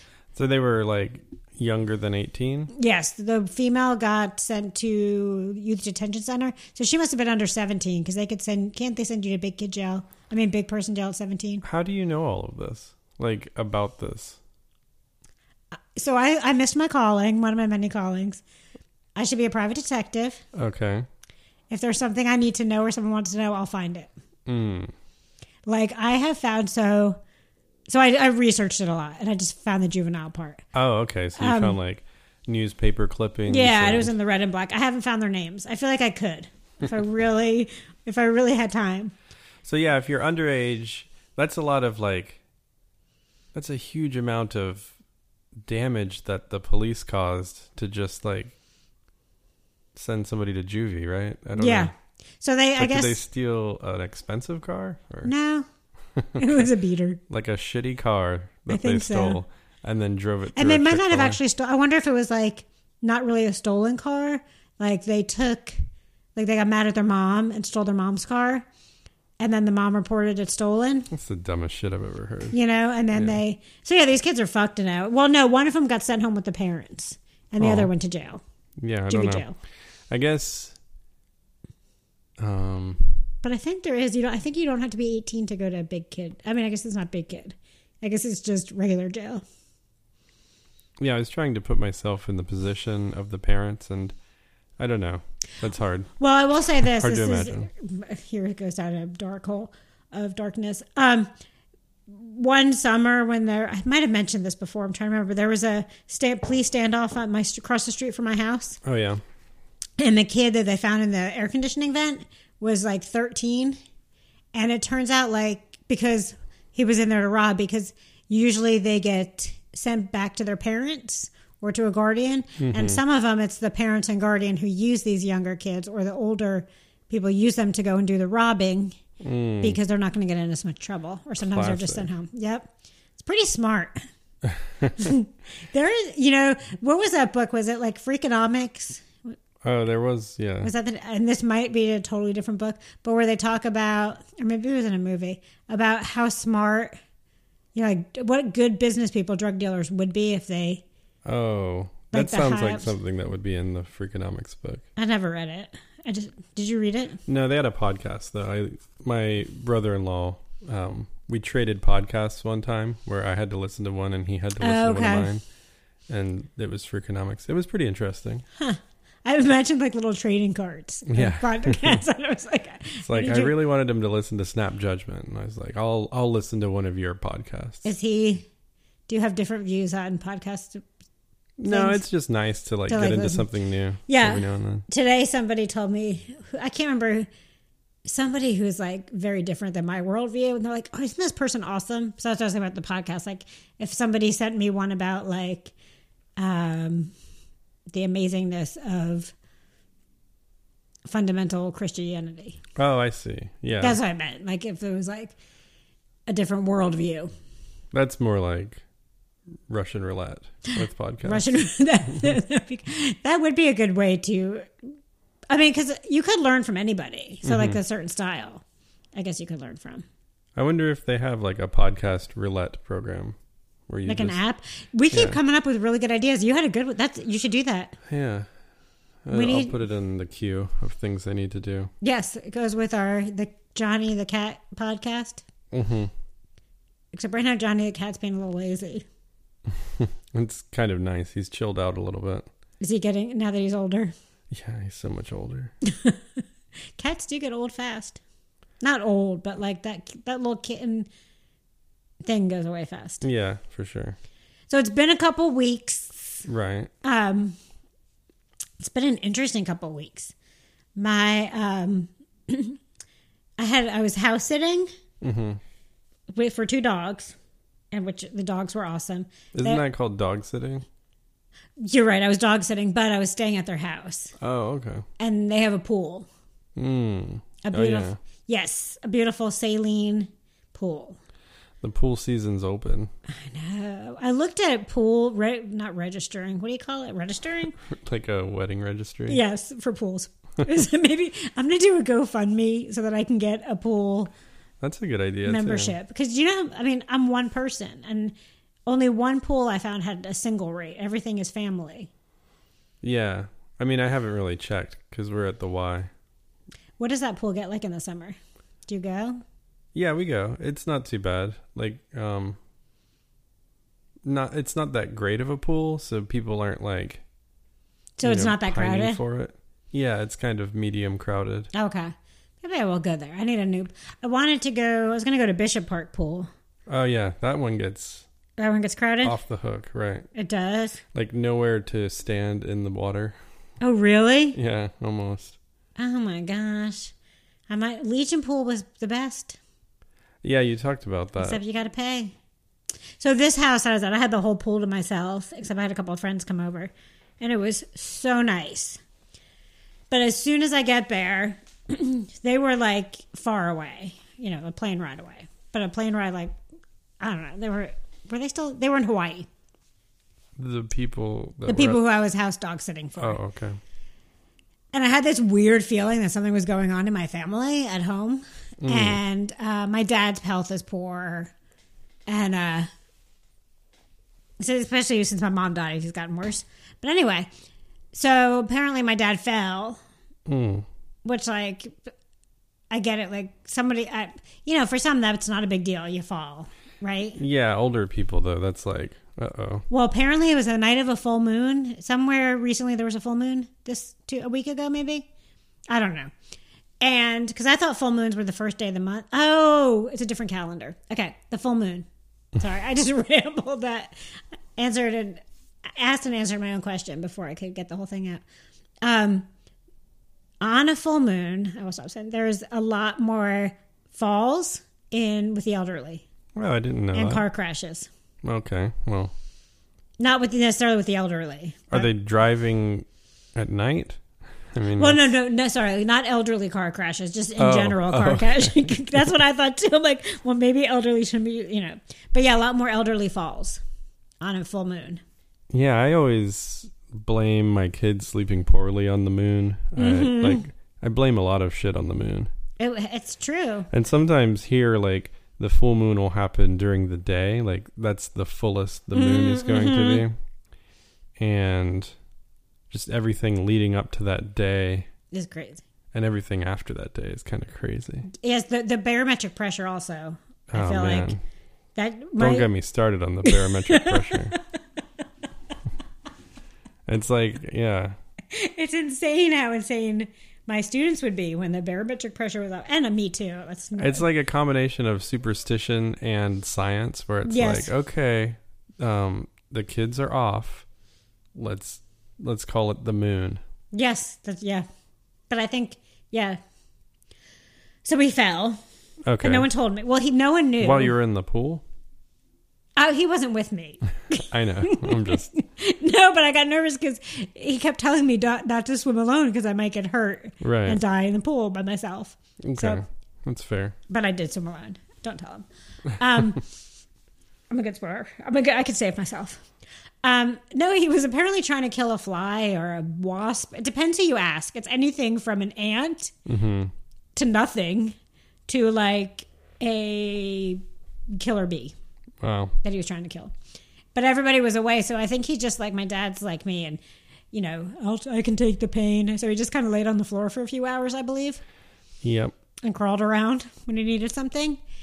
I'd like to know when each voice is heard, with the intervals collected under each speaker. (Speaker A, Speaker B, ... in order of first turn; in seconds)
Speaker A: 0.3-2.7, 11.6-14.4, 20.5-21.1, 24.5-24.9, 30.7-34.1, 39.6-42.4, 43.5-44.9, 45.6-48.5, 49.9-51.9, 52.8-55.3, 56.1-56.7, 57.3-61.4, 71.1-72.5, 73.1-73.4, 77.6-77.9, 78.8-79.4, 80.1-80.8, 82.4-83.2, 91.0-94.2, 94.8-96.1, 96.8-97.7, 108.8-109.2, 122.6-123.0, 129.2-129.8, 131.4-132.1, 134.4-134.9, 139.6-140.7, 151.2-154.8, 157.3-165.4, 166.1-168.4, 171.1-172.0, 173.0-177.8, 181.6-184.8, 202.8-204.0, 207.9-208.8, 209.7-211.5, 217.4-217.8, 220.6-223.4, 223.9-224.4, 225.1-225.4, 228.1-228.5, 229.2-231.9, 235.7-236.1, 239.8-242.4, 244.5-245.7, 253.2-254.2, 256.5-256.9, 265.2-265.6, 269.5-270.8, 274.4-275.0, 276.8-278.2, 281.8-283.1, 287.8-289.4, 294.8-295.9, 303.0-306.1, 309.9-312.6, 314.2-317.2, 318.2-321.7, 326.9-328.3, 329.2-330.3, 331.1-333.4, 334.5-335.6, 340.4-341.6, 360.6-362.0, 363.2-363.8, 368.8-369.2, 380.5-380.9, 387.4-389.8, 416.5-417.4, 418.4-419.3, 421.9-425.2, 427.6-428.9, 435.7-442.5, 443.9-450.3, 451.4-452.1, 452.9-455.1, 456.1-458.3, 460.7-461.4, 462.4-464.6, 467.1-468.1, 474.0-480.9, 481.5-483.6, 489.2-489.7, 490.8-491.8, 494.5-495.5, 500.6-501.0, 502.6-503.9, 516.5-516.9, 522.4-522.8, 532.2-532.5
Speaker B: 2.7-11.6, 15.9-18.4, 19.1-20.4, 21.7-24.1, 25.7-27.2, 27.9-30.6, 31.4-31.8, 33.5-39.1, 51.6-53.2, 55.2-55.7, 56.4-57.2, 58.7-59.4, 60.5-65.8, 66.3-68.7, 69.4-71.1, 72.5-78.4, 79.1-79.5, 83.4-89.4, 96.2-101.3, 102.1-108.8, 110.0-113.8, 114.5-129.0, 129.6-134.0, 134.9-139.3, 140.6-146.9, 147.7-150.8, 152.1-152.9, 155.0-157.2, 164.6-165.3, 168.6-173.5, 177.8-178.5, 179.1-180.8, 181.7-182.0, 182.9-183.4, 184.1-187.3, 188.0-195.7, 196.4-197.1, 197.9-199.3, 201.1-202.6, 203.8-205.3, 206.3-207.3, 211.2-214.7, 215.5-218.6, 219.1-220.0, 224.1-228.0, 229.3-229.8, 232.0-235.4, 237.1-239.1, 242.8-244.1, 245.8-246.4, 246.9-248.2, 248.8-251.1, 252.2-253.2, 254.7-256.5, 257.0-257.6, 258.8-260.3, 261.0-262.8, 263.6-264.9, 266.3-267.3, 267.9-269.8, 271.8-274.3, 275.2-276.3, 277.6-281.2, 283.3-287.8, 289.3-294.3, 295.4-298.3, 298.9-302.1, 307.0-309.4, 318.2-319.2, 321.7-326.5, 328.6-329.4, 330.3-331.0, 333.8-334.6, 336.0-337.1, 337.7-339.6, 341.4-342.3, 343.2-349.0, 350.1-356.6, 357.2-359.5, 361.6-363.4, 364.9-371.5, 372.3-372.9, 374.6-377.5, 378.1-380.0, 381.2-382.1, 382.9-387.4, 389.9-395.2, 395.9-396.3, 397.0-404.1, 404.8-405.4, 405.9-408.4, 409.0-409.5, 410.6-416.2, 417.1-418.1, 420.2-422.1, 425.0-433.8, 434.4-435.2, 439.9-440.6, 442.8-443.9, 449.1-450.2, 455.3-455.8, 458.3-461.3, 461.9-462.7, 463.5-464.6, 468.5-474.2, 477.4-477.9, 483.9-484.9, 485.5-486.6, 488.0-488.8, 489.4-491.1, 493.0-503.0, 504.1-506.6, 507.7-509.6, 510.2-516.3, 517.4-518.1, 518.7-520.8, 521.3-521.9, 522.8-523.5, 524.1-527.0, 527.5-531.6, 532.8-534.8